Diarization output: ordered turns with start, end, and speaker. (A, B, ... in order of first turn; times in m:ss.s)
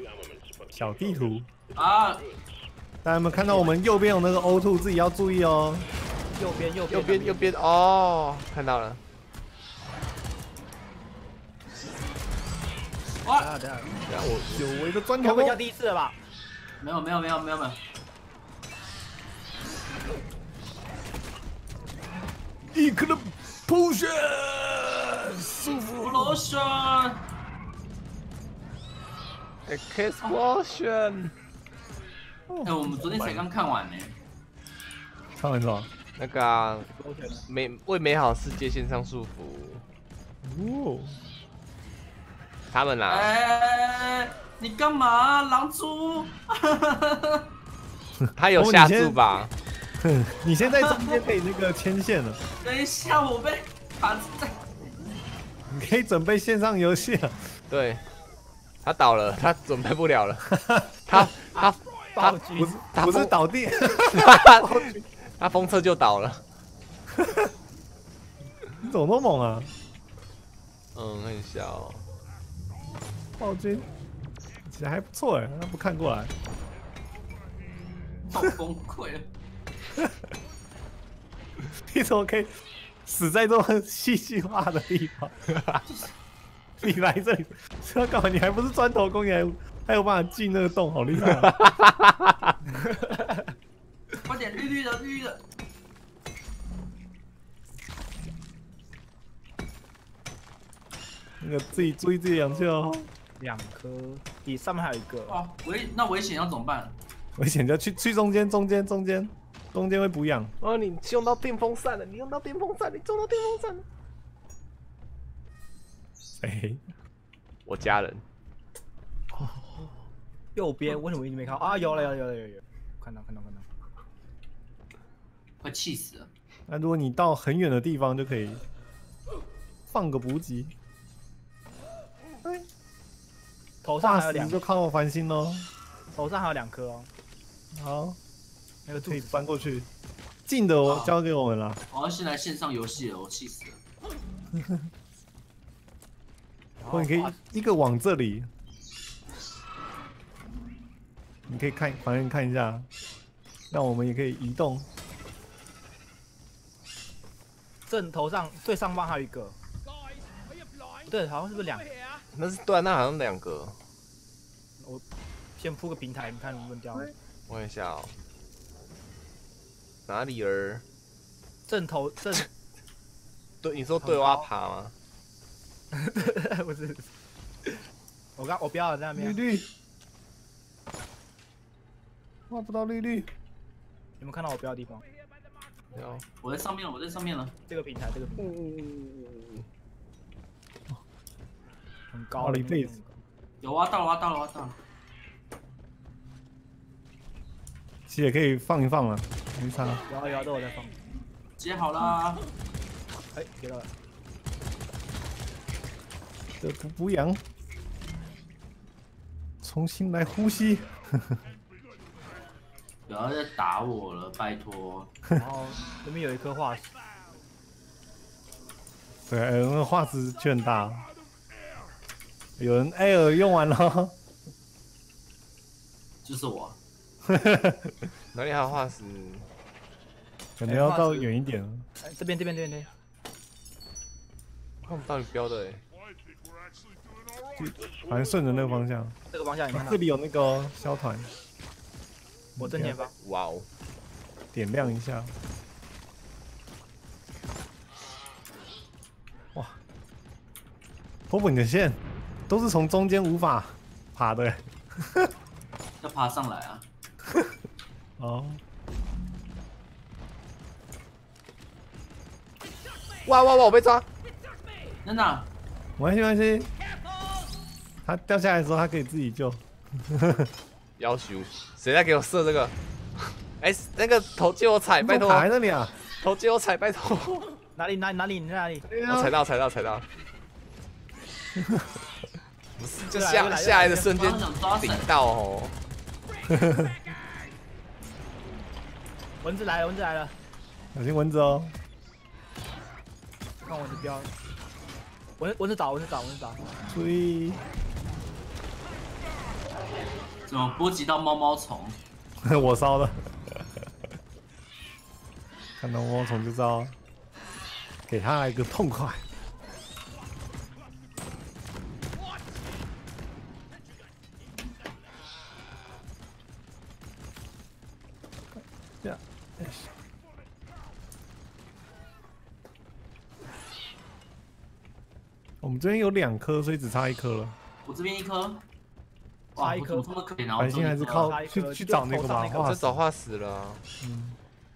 0:00.7-0:01.5 A
0:01.7-0:02.3 B
0:03.0-0:05.9 A
0:06.4-0:07.6 C
0:06.9-0:09.0 D
0:13.2-0:13.5 B
0:13.4-0:13.9 C
0:14.1-0:14.9 D
0:14.5-0:15.6 A
0:15.2-0:16.2 C
0:16.8-0:17.8 B
0:22.7-0:26.4 A
0:26.0-0:27.2 B
0:29.7-0:31.3 D
0:32.5-0:33.4 A
0:32.6-0:34.2 B
0:35.4-0:35.9 A
0:36.2-0:36.9 D
0:37.0-0:37.4 C
0:37.5-0:39.8 D
0:40.4-0:41.2 A
0:42.7-0:43.3 D
0:43.1-0:47.5 B
0:48.4-0:49.5 D
0:48.5-0:49.2 A
0:50.0-0:52.4 A
0:50.6-0:51.2 B
0:52.6-0:54.6 B
0:55.7-0:57.5 A
0:57.7-0:58.0 D
0:58.8-1:02.4 D
1:00.5-1:01.3 A
1:02.1-1:02.8 C
1:02.6-1:05.0 A
1:02.9-1:03.4 D
1:04.1-1:06.4 D
1:07.2-1:07.5 A
1:08.8-1:09.7 A
1:10.9-1:12.0 D
1:13.4-1:13.9 A
1:14.6-1:16.3 A
1:18.3-1:19.3 B
1:21.9-1:25.5 A
1:25.9-1:26.1 B
1:26.8-1:31.6 A
1:31.3-1:32.5 D
1:32.8-1:33.5 C
1:34.2-1:35.4 B
1:41.4-1:43.1 A
1:43.4-1:45.4 C
1:45.3-1:46.9 B
1:47.4-1:50.5 A
1:50.6-1:53.8 D
1:56.4-1:56.8 A
1:57.6-1:58.2 D
2:00.5-2:03.7 C
2:05.6-2:06.3 B
2:06.7-2:08.6 A
2:09.9-2:10.7 A
2:13.8-2:14.6 C
2:14.0-2:15.7 A
2:16.1-2:17.1 C
2:17.7-2:18.2 A
2:18.9-2:19.4 C
2:19.0-2:19.9 A
2:20.5-2:21.8 A
2:20.8-2:21.1 B
2:21.9-2:23.8 B
2:26.8-2:27.4 C
2:26.9-2:28.5 A
2:31.5-2:32.9 A
2:33.7-2:34.9 A
2:37.9-2:39.6 C
2:41.1-2:41.9 C
2:42.3-2:43.8 D
2:44.8-2:45.0 C
2:45.6-2:47.1 C
2:47.5-2:48.1 D
2:50.1-2:50.8 D
2:51.7-2:52.5 C
2:53.6-2:54.9 D
2:54.0-2:54.5 C
2:55.9-2:57.1 C
2:58.4-2:59.4 C
2:59.2-2:59.7 A
3:02.5-3:03.3 A
3:04.2-3:05.0 C
3:05.9-3:06.2 D
3:06.4-3:07.5 B
3:07.7-3:08.6 C
3:08.4-3:09.6 D
3:12.1-3:13.2 C
3:12.4-3:12.9 A
3:13.6-3:14.8 B
3:18.1-3:20.0 A
3:20.1-3:20.9 C
3:21.6-3:22.4 B
3:23.3-3:23.9 C
3:26.6-3:27.4 A
3:29.6-3:31.4 A
3:33.1-3:35.1 B
3:35.4-3:36.9 C
3:39.3-3:41.1 A
3:42.6-3:44.2 A
3:46.2-3:46.8 B
3:47.3-3:47.9 A
3:48.3-3:49.5 D
3:50.6-3:51.9 A
3:50.6-3:51.3 C
3:52.0-3:52.9 C
3:54.8-3:55.8 D
3:57.6-3:59.2 A
3:59.3-4:00.0 C
3:59.7-4:01.3 A
4:02.6-4:03.0 A
4:02.6-4:03.1 C
4:03.2-4:03.7 D
4:04.5-4:05.3 A
4:11.3-4:15.3 A
4:16.0-4:16.8 B
4:17.3-4:17.5 A
4:18.2-4:18.6 A
4:23.2-4:24.0 D
4:25.0-4:25.5 B
4:26.0-4:26.7 A
4:28.0-4:30.5 A
4:31.0-4:35.5 D
4:35.0-4:36.0 A
4:36.1-4:37.5 D
4:37.8-4:38.9 C
4:38.9-4:39.4 A
4:39.0-4:40.0 D
4:41.6-4:41.9 A
4:42.8-4:45.7 D
4:43.1-4:44.1 C
4:44.1-4:45.1 B
4:46.5-4:46.9 A
4:49.4-4:50.3 C
4:50.9-4:51.8 A
4:53.7-4:54.3 C
4:55.4-4:56.6 C
4:56.9-4:57.6 A
5:00.5-5:02.0 B
5:02.4-5:03.7 A
5:05.8-5:07.0 A
5:08.1-5:09.2 A
5:18.5-5:19.9 A
5:25.6-5:27.6 A
5:27.8-5:28.6 B
5:29.6-5:31.4 B
5:29.6-5:30.0 C
5:30.6-5:33.0 A
5:31.1-5:32.7 C
5:32.6-5:33.8 D
5:34.0-5:34.4 A